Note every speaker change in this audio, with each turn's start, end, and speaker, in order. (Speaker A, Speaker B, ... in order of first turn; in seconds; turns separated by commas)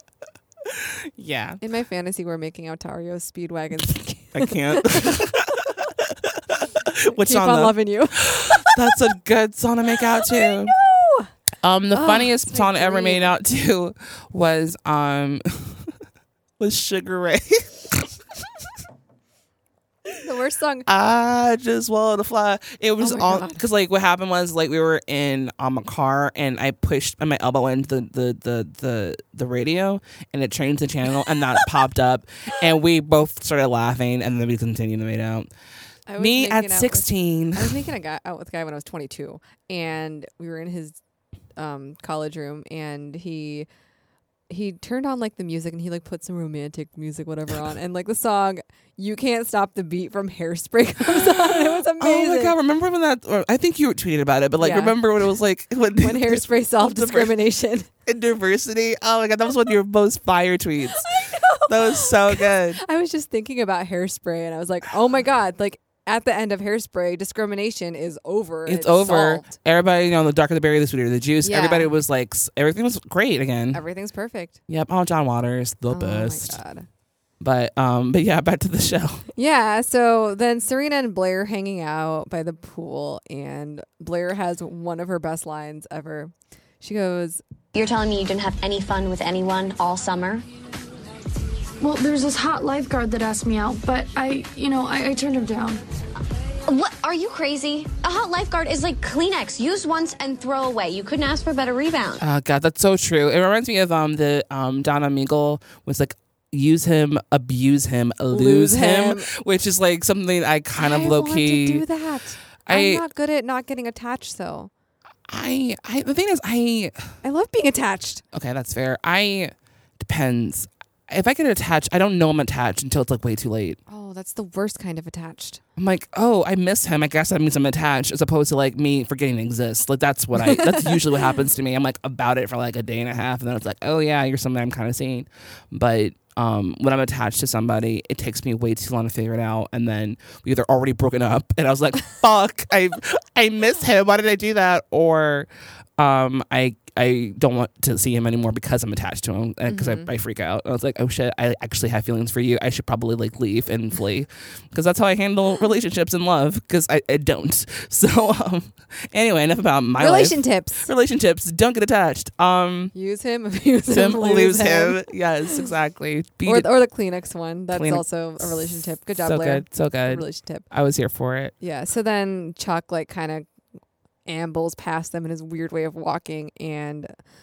Speaker A: 0.7-1.6, Speaker B: 1.6-5.3, Speaker A: 4.3-10.8, Speaker B: 7.1-9.1, Speaker B: 10.1-11.3, Speaker A: 11.6-15.9, Speaker B: 11.9-13.3, Speaker A: 16.6-18.4, Speaker B: 20.1-20.9, Speaker A: 20.9-35.5, Speaker B: 23.0-23.6, Speaker B: 36.1-41.0, Speaker A: 36.2-37.8, Speaker B: 41.6-43.7, Speaker B: 44.5-52.5, Speaker A: 51.1-57.4, Speaker B: 54.6-55.0, Speaker B: 56.0-57.9, Speaker A: 58.0-62.8, Speaker B: 61.0-69.5, Speaker A: 68.7-73.8, Speaker B: 71.4-71.9, Speaker B: 73.7-74.6, Speaker A: 74.7-76.6, Speaker B: 75.9-76.9, Speaker A: 77.4-79.2, Speaker B: 79.3-87.4, Speaker C: 87.7-90.5, Speaker D: 91.8-95.8, Speaker C: 96.7-102.2, Speaker A: 102.2-111.8, Speaker B: 108.3-109.3, Speaker B: 110.8-114.7, Speaker A: 112.6-113.0, Speaker A: 115.3-117.0, Speaker B: 117.2-118.2, Speaker A: 118.3-123.8, Speaker B: 123.9-125.6, Speaker A: 125.8-162.9, Speaker B: 130.4-131.3, Speaker B: 149.7-150.1, Speaker B: 160.0-160.9, Speaker B: 162.9-165.1, Speaker A: 163.9-166.7, Speaker B: 166.4-170.7, Speaker A: 167.7-171.5, Speaker B: 171.6-173.5, Speaker B: 174.2-177.1